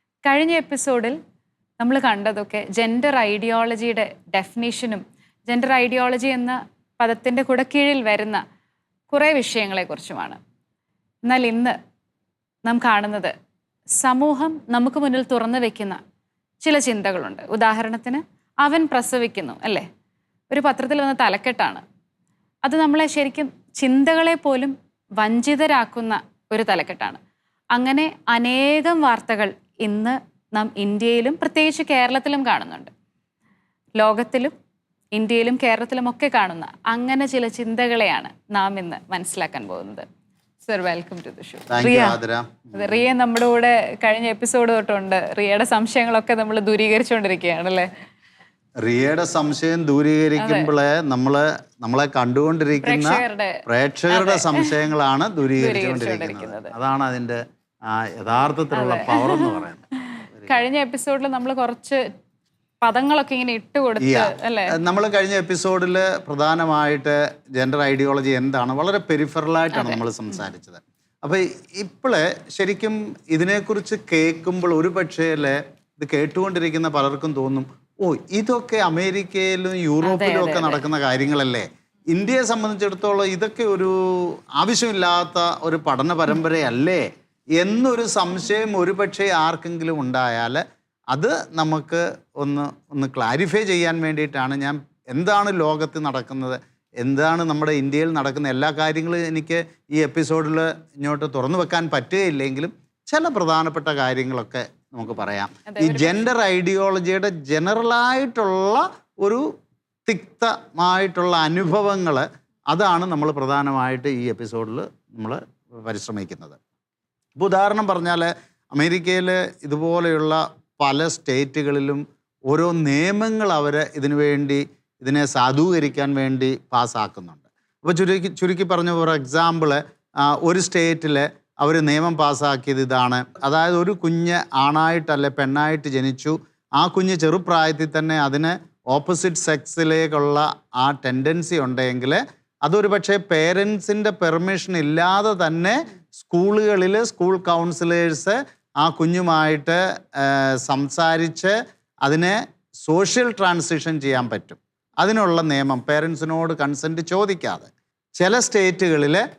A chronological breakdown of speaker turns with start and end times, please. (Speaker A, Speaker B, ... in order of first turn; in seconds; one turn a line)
Speaker A: 0.2-1.2
Speaker A: 1.8-8.4
Speaker A: 9.1-10.4
Speaker A: 11.2-11.8
Speaker A: 12.7-13.3
Speaker A: 14.0-16.0
Speaker A: 16.6-19.9
Speaker A: 20.5-21.8
Speaker A: 22.6-27.2
Speaker A: 27.7-32.9
Speaker A: 34.0-34.5
Speaker A: 35.1-40.1
Speaker A: 40.6-42.2
Speaker B: 41.7-43.0
Speaker A: 42.7-47.9
Speaker B: 48.8-60.6
Speaker A: 50.4-50.7
Speaker A: 52.8-54.8
Speaker A: 55.6-56.7
Speaker A: 58.7-62.0
Speaker A: 62.8-64.8
Speaker B: 64.0-109.5
Speaker A: 69.7-70.0
Speaker A: 80.0-80.8
Speaker A: 105.7-106.2
Speaker B: 110.0-116.6
Speaker B: 117.3-159.2